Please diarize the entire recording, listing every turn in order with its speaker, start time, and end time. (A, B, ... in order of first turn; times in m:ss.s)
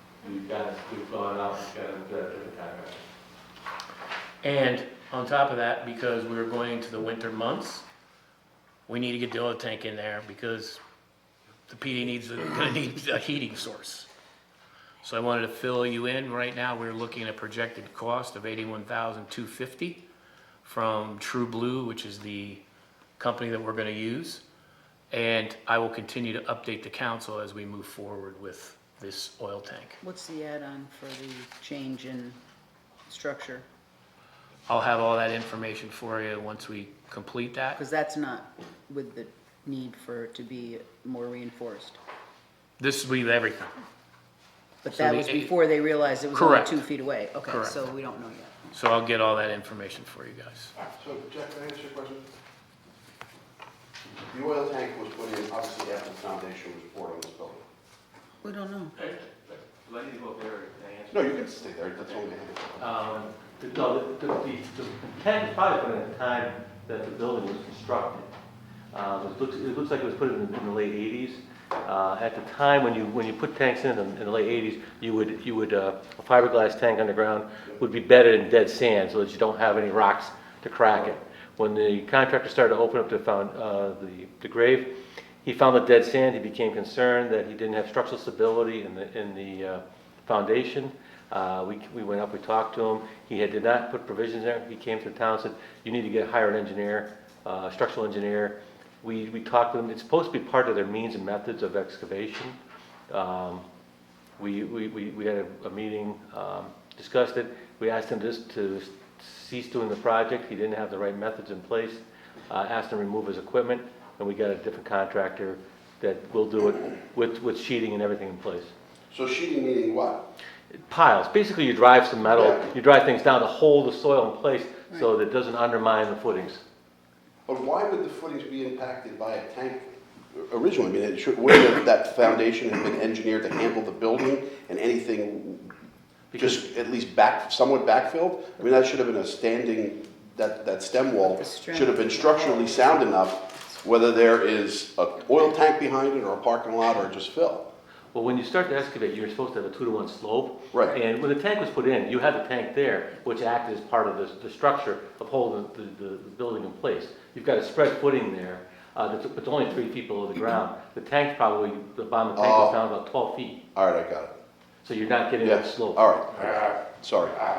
0:00.2-0:03.0 A
0:04.4-0:07.9 B
0:08.9-0:10.8 B
0:11.7-0:14.1 B
0:15.0-0:20.0 B
0:20.6-0:22.6 B
0:23.2-0:24.4 B
0:25.1-0:30.0 B
0:30.0-0:32.4 C
0:33.1-0:33.7 C
0:34.7-0:37.8 B
0:37.8-0:42.0 C
0:42.8-0:43.8 B
0:44.8-0:48.7 C
0:44.9-0:45.7 B
0:46.3-0:46.9 B
0:47.4-0:47.8 B
0:48.7-0:50.7 B
0:51.0-0:52.3 D
0:54.3-0:57.6 D
0:58.4-0:59.0 C
0:59.0-1:01.4 A
1:01.1-1:02.7 D
1:02.8-1:08.3 A
1:08.9-1:24.9 A
1:25.4-1:42.6 A
1:43.1-1:43.6 A
1:44.4-1:58.7 A
1:59.1-2:00.3 D
2:00.7-2:06.6 A
2:02.3-2:02.7 D
2:07.5-2:15.7 D
2:16.3-2:16.7 A
2:16.4-2:27.7 D
2:21.3-2:23.8 C
2:28.1-2:43.6 A
2:30.7-2:31.0 D
2:42.4-2:42.8 D
2:43.7-2:44.3 D
2:44.8-2:46.0 A
2:45.4-2:47.4 D